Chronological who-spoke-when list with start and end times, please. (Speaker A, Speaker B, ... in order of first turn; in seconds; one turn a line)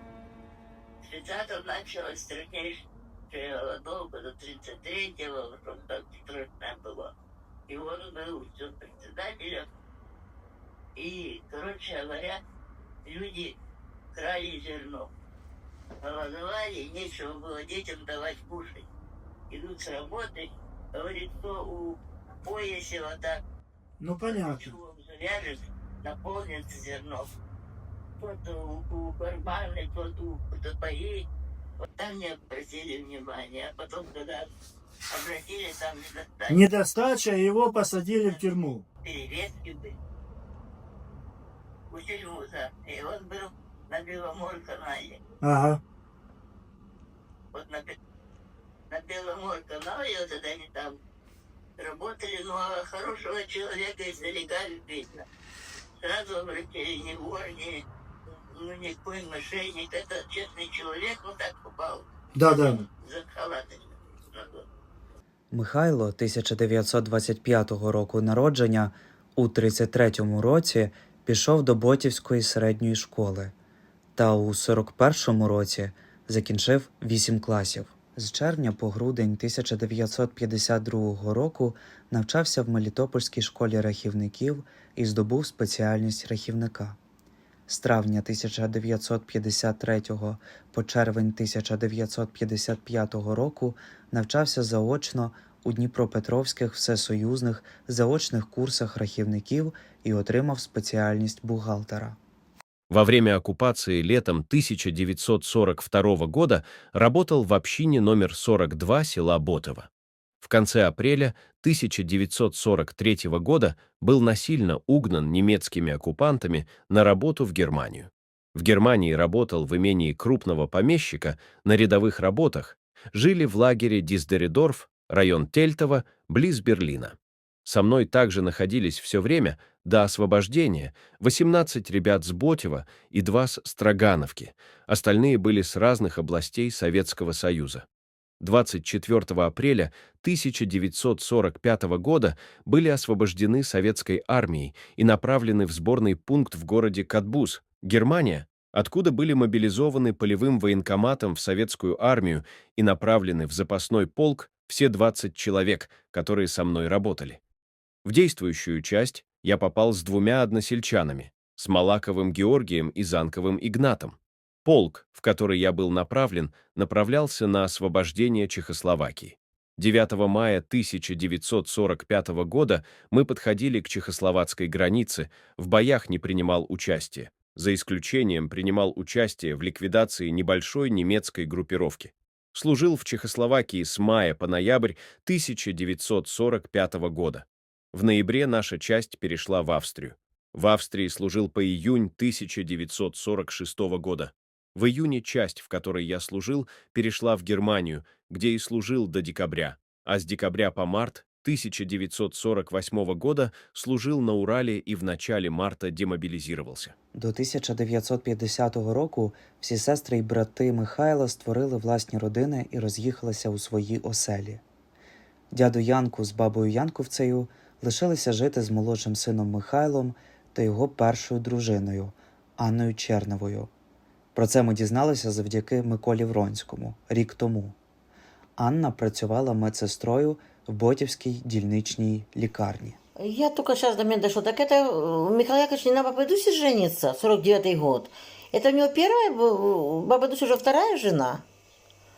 Speaker A: 1.0-7.1
Speaker A: 7.7-9.7
Speaker A: 11.0-12.4
Speaker A: 13.1-13.5
Speaker A: 14.1-15.1
Speaker A: 16.0-18.9
Speaker A: 19.5-23.4
Speaker B: 24.0-24.7
Speaker A: 24.2-27.3
Speaker A: 28.2-31.2
Speaker A: 31.8-34.5
Speaker A: 35.1-36.7
Speaker B: 36.5-38.8
Speaker A: 39.0-40.0
Speaker A: 41.9-45.2
Speaker B: 45.4-45.8
Speaker A: 47.5-47.9
Speaker A: 48.9-51.0
Speaker A: 51.8-55.3
Speaker A: 56.0-57.8
Speaker A: 58.5-64.7
Speaker B: 62.4-62.9
Speaker C: 65.5-73.5
Speaker C: 74.2-87.0
Speaker C: 87.7-102.2
Speaker D: 102.9-109.9
Speaker D: 110.4-137.9
Speaker D: 138.4-157.4
Speaker D: 158.1-206.9
Speaker C: 207.1-214.6
Speaker C: 215.5-223.7
Speaker C: 224.3-227.8
Speaker C: 228.6-233.0
Speaker E: 233.2-241.4